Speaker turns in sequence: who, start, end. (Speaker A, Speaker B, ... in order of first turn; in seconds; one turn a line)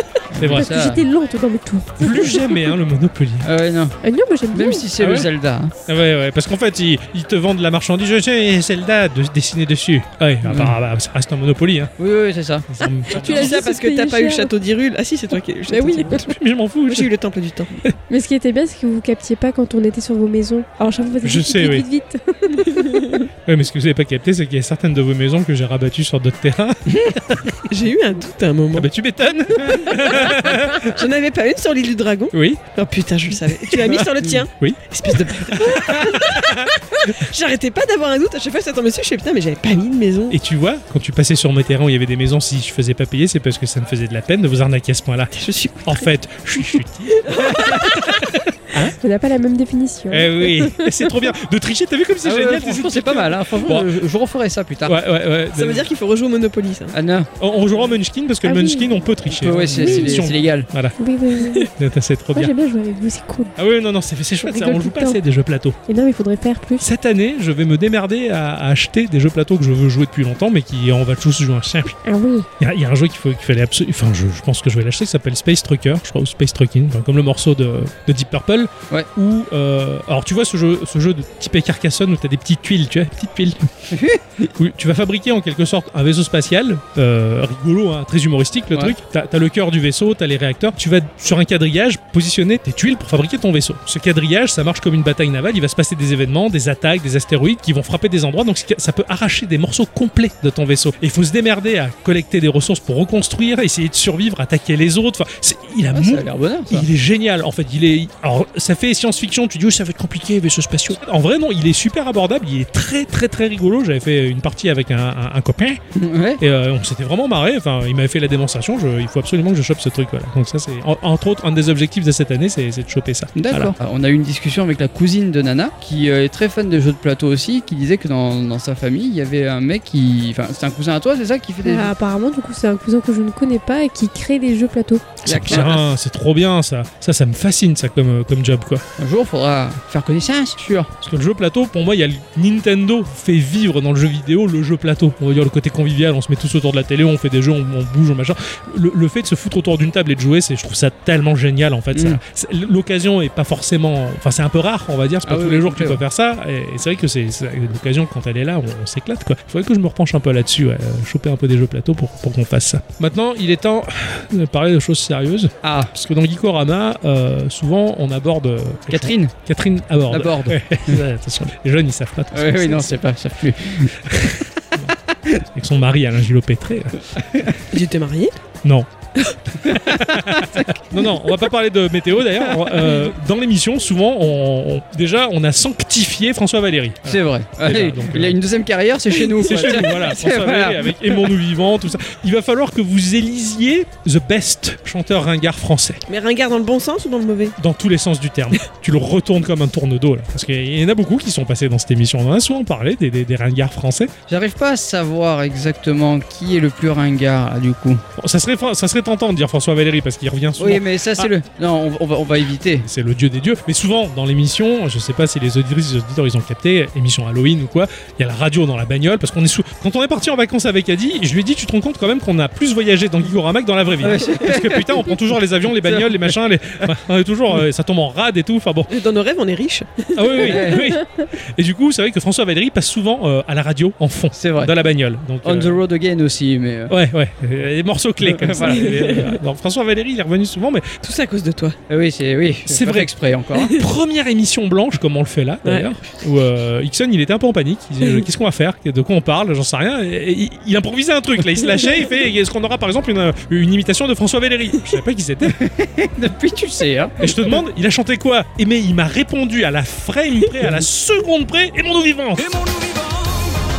Speaker A: 0.3-1.1
Speaker B: 0.3-0.8
Speaker C: 0.5-2.6
Speaker B: 2.0-3.5
Speaker A: 3.4-4.0
Speaker C: 4.0-4.9
Speaker A: 4.5-5.7
Speaker B: 5.0-5.3
Speaker B: 5.9-11.9
Speaker A: 10.4-10.8
Speaker A: 12.0-12.7
Speaker B: 12.7-13.6
Speaker D: 13.1-16.3
Speaker C: 13.1-14.5
Speaker C: 15.7-16.2
Speaker B: 16.1-17.1
Speaker D: 16.9-17.7
Speaker C: 18.1-23.3
Speaker B: 21.2-21.9
Speaker D: 22.7-23.1
Speaker B: 23.4-27.7
Speaker A: 26.9-27.1
Speaker D: 27.7-28.9
Speaker B: 28.8-31.0
Speaker D: 29.7-40.4
Speaker B: 32.3-32.6
Speaker B: 33.4-37.1
Speaker B: 40.3-49.0
Speaker D: 45.4-46.1
Speaker D: 46.6-48.2
Speaker C: 48.8-51.1
Speaker B: 50.1-53.9
Speaker A: 52.2-55.0
Speaker B: 54.9-55.9
Speaker D: 55.5-57.0
Speaker A: 56.9-57.3
Speaker B: 57.4-61.0
Speaker C: 58.4-59.0
Speaker A: 59.3-60.7
Speaker C: 59.8-60.2
Speaker C: 61.0-61.7
Speaker B: 61.6-62.5
Speaker C: 62.4-63.5
Speaker B: 63.6-65.8
Speaker C: 64.4-65.2
Speaker C: 65.9-66.9
Speaker B: 66.8-72.0
Speaker C: 72.0-72.5
Speaker B: 72.6-83.9
Speaker A: 83.9-84.5
Speaker B: 84.6-115.8
Speaker A: 105.9-106.9
Speaker A: 115.9-116.4
Speaker B: 116.4-123.7
Speaker A: 123.3-131.9
Speaker C: 131.6-135.2
Speaker A: 135.2-135.8
Speaker D: 135.3-135.8
Speaker B: 135.3-138.8
Speaker A: 139.0-140.9
Speaker B: 141.0-173.0
Speaker A: 151.9-152.2
Speaker A: 155.3-156.0
Speaker A: 165.6-165.9
Speaker A: 168.9-169.3
Speaker A: 170.1-171.0
Speaker A: 172.3-174.4
Speaker B: 174.1-174.9
Speaker B: 175.5-177.1
Speaker A: 177.2-177.6
Speaker D: 177.7-178.4
Speaker B: 179.5-188.4
Speaker A: 179.6-181.4
Speaker A: 182.6-183.0
Speaker A: 187.1-191.3
Speaker B: 189.4-196.0
Speaker D: 196.1-197.6
Speaker B: 197.6-204.1
Speaker A: 204.3-208.0
Speaker B: 208.2-211.3
Speaker A: 210.6-212.9
Speaker B: 212.8-229.0
Speaker A: 224.0-225.2
Speaker A: 225.8-226.9
Speaker D: 228.9-230.8
Speaker B: 230.2-235.8
Speaker A: 230.4-231.0
Speaker A: 234.4-234.7
Speaker A: 235.4-237.0
Speaker B: 236.9-241.0
Speaker A: 238.2-239.3
Speaker D: 238.6-239.4
Speaker D: 241.0-241.8
Speaker A: 241.9-243.8
Speaker B: 242.7-243.1
Speaker D: 243.6-243.8
Speaker B: 243.7-255.6
Speaker D: 245.7-245.9
Speaker A: 255.4-257.2
Speaker B: 257.2-262.6